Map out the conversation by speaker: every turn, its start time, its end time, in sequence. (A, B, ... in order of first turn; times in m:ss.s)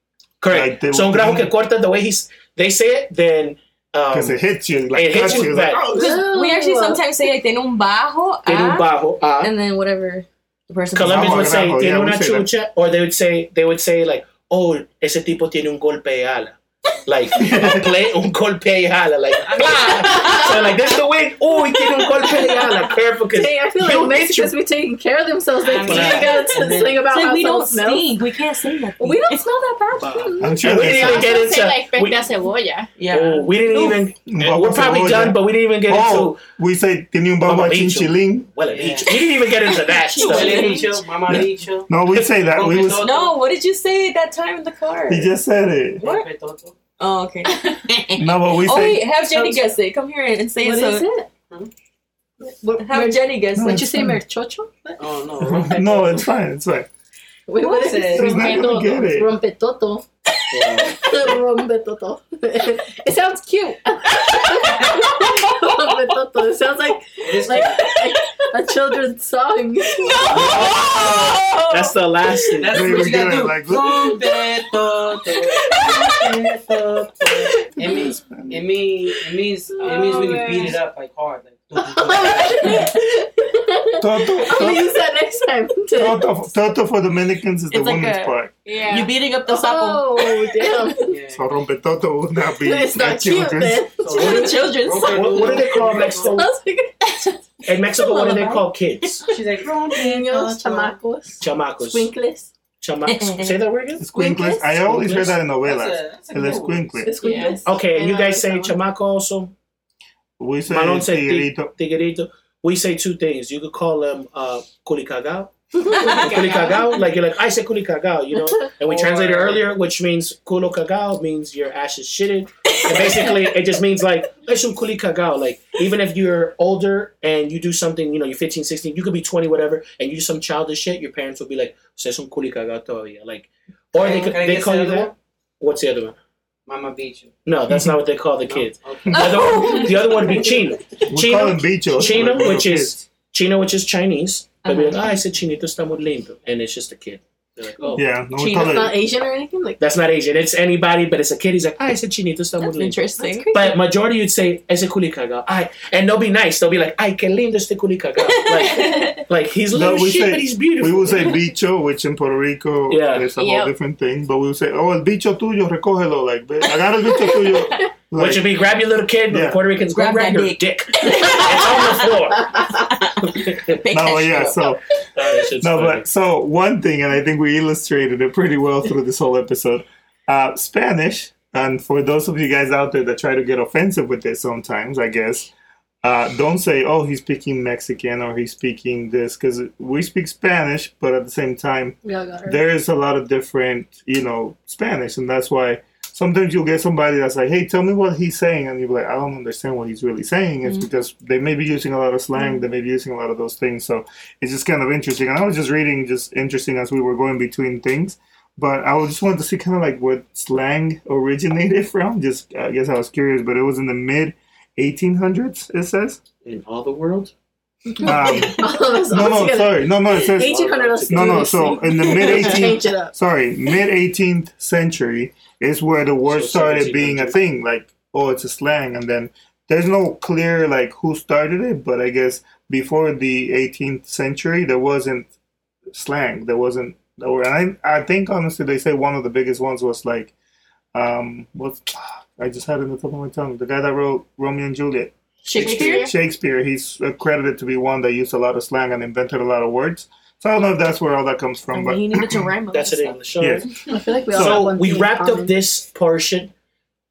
0:00.4-0:06.0 A
0:00.5-0:01.5 B
0:04.1-0:06.2 B
0:05.9-0:07.0 C
0:06.0-0:08.9 D
0:08.4-0:09.5 A
0:09.4-0:11.7 D
0:10.9-0:24.5 A
0:11.0-0:12.5 B
0:17.4-0:17.9 B
0:19.5-0:20.4 E
0:19.8-0:20.5 D
0:21.8-0:28.3 C
0:25.6-0:26.5 F
0:25.8-0:27.0 E
0:25.8-0:26.4 A
0:26.8-0:29.5 D
0:29.0-0:30.6 C
0:30.0-0:32.2 A
0:30.4-0:31.3 B
0:30.8-0:32.9 F
0:33.0-0:34.0 D
0:33.1-0:36.4 A
0:34.3-0:38.5 B
0:37.4-0:40.8 A
0:38.7-0:39.2 E
0:39.9-0:40.9 D
0:40.1-0:43.4 E
0:41.3-0:43.0 B
0:43.0-0:45.3 D
0:45.1-0:46.0 B
0:46.0-0:46.7 E
0:47.0-0:51.1 D
0:47.5-0:47.8 F
0:48.2-0:49.0 B
0:49.1-0:49.8 E
0:50.6-0:51.3 C
0:52.4-0:55.1 C
0:52.8-0:53.9 D
0:53.6-0:54.2 B
0:55.0-0:56.3 E
0:55.4-0:56.9 B
0:57.5-1:00.0 C
0:57.6-0:58.3 D
0:57.6-0:58.3 E
0:58.1-0:59.3 B
0:58.2-0:59.0 F
1:00.5-1:00.9 E
1:00.8-1:10.7 C
1:04.1-1:05.6 D
1:07.2-1:07.9 E
1:07.5-1:08.2 D
1:10.0-1:12.5 D
1:10.2-1:12.9 A
1:12.6-1:22.8 E
1:12.7-1:14.1 B
1:17.8-1:18.1 C
1:18.3-1:18.6 B
1:19.8-1:20.8 F
1:19.8-1:20.8 C
1:21.7-1:26.3 C
1:24.0-1:24.9 B
1:25.9-1:28.5 B
1:27.7-1:28.4 D
1:28.6-1:29.1 F
1:28.9-1:30.7 D
1:29.4-1:31.1 C
1:31.1-1:31.4 E
1:31.3-1:33.9 B
1:32.6-1:34.8 C
1:34.0-1:36.4 E
1:34.1-1:35.6 D
1:35.1-1:36.5 A
1:35.8-1:38.4 C
1:37.6-1:39.2 A
1:37.9-1:38.6 D
1:39.2-1:41.0 E
1:39.9-1:42.5 C
1:41.4-1:42.1 A
1:42.8-1:44.1 A
1:43.0-1:43.6 D
1:44.0-1:47.1 B
1:44.1-1:44.7 C
1:44.7-1:45.4 A
1:45.5-1:47.0 E
1:47.0-1:48.8 C
1:47.2-1:47.6 F
1:47.6-1:49.5 A
1:50.4-1:51.7 B
1:50.7-2:16.2 A
1:55.8-1:56.7 C
1:56.0-1:56.3 D
1:56.1-1:56.9 F
1:58.8-1:59.7 E
2:02.7-2:03.4 D
2:13.9-2:15.1 E
2:16.6-2:17.3 E
2:17.4-2:28.0 A
2:17.7-2:18.0 B
2:18.4-2:20.4 E
2:19.1-2:19.3 B
2:19.1-2:20.3 D
2:21.1-2:23.1 B
2:24.6-2:25.1 D
2:28.0-2:29.0 B
2:28.4-2:28.8 D
2:28.4-2:29.9 C
2:29.8-2:41.3 A
2:32.6-2:33.7 D
2:33.2-2:33.7 C
2:38.2-2:39.2 D
2:39.7-2:48.5 B
2:42.9-2:43.3 A
2:43.4-2:43.7 F
2:48.1-2:53.8 A
2:49.3-2:49.6 B
2:49.9-2:52.2 D
2:52.9-2:54.7 D
2:53.9-2:54.8 B
2:55.1-2:56.0 A
2:55.6-3:05.5 B
3:06.0-3:36.2 B
3:12.0-3:12.6 C
3:36.4-3:37.3 A
3:37.8-3:43.1 C
3:38.0-3:40.5 B
3:40.4-3:41.8 A
3:41.1-3:55.3 B
3:46.3-3:47.4 A
3:55.9-4:00.3 B
4:00.9-4:12.5 B
4:05.5-4:06.1 F
4:05.5-4:05.8 D
4:11.7-4:13.2 D
4:12.7-4:13.7 A
4:13.9-4:15.5 C
4:14.3-4:16.5 A
4:14.3-4:14.7 B